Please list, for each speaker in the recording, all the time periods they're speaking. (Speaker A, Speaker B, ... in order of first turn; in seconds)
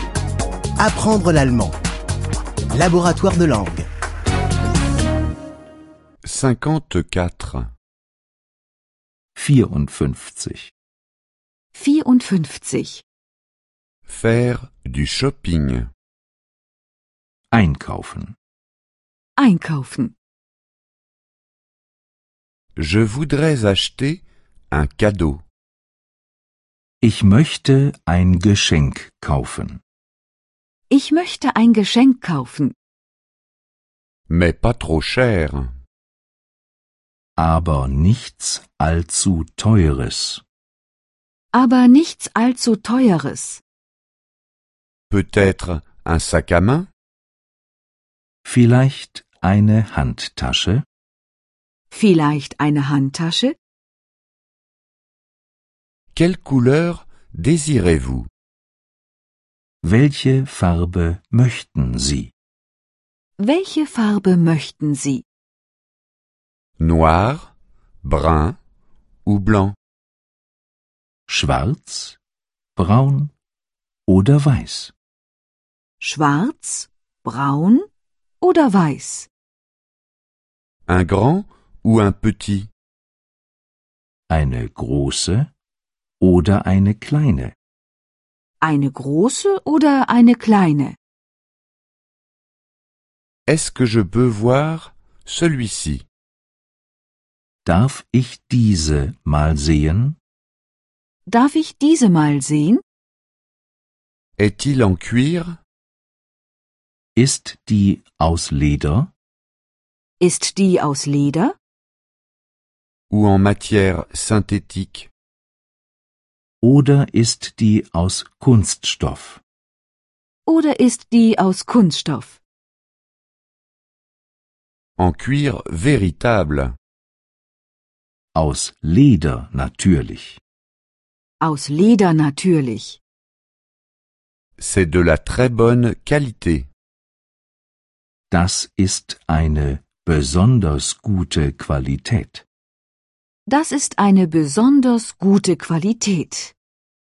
Speaker A: 0.8-1.7, 2.7-3.9
Speaker B: 6.2-7.7, 14.1-15.9, 22.8-25.4, 34.3-35.7, 45.1-46.9, 56.1-58.3, 66.8-67.5, 68.0-68.6, 69.2-69.7, 80.9-82.7, 93.5-96.0, 104.4-105.6, 113.1-115.1, 125.0-126.7, 134.6-136.7
Speaker C: 9.3-10.7, 17.5-18.4, 27.0-29.8, 37.4-40.4, 48.5-50.8, 59.8-62.3, 71.3-72.2, 72.8-73.3, 74.1-74.9, 84.3-85.5, 86.2-87.5, 97.6-100.2, 107.2-109.1, 116.6-119.4, 128.3-130.4, 138.3-142.4
Speaker D: 11.7-13.0, 19.4-20.1, 30.9-32.8, 41.5-43.6, 51.9-53.5, 63.4-65.2, 76.0-77.9, 78.4-79.3, 88.6-91.0, 101.3-102.8, 110.2-111.5, 120.5-122.4, 131.4-133.0, 143.5-146.5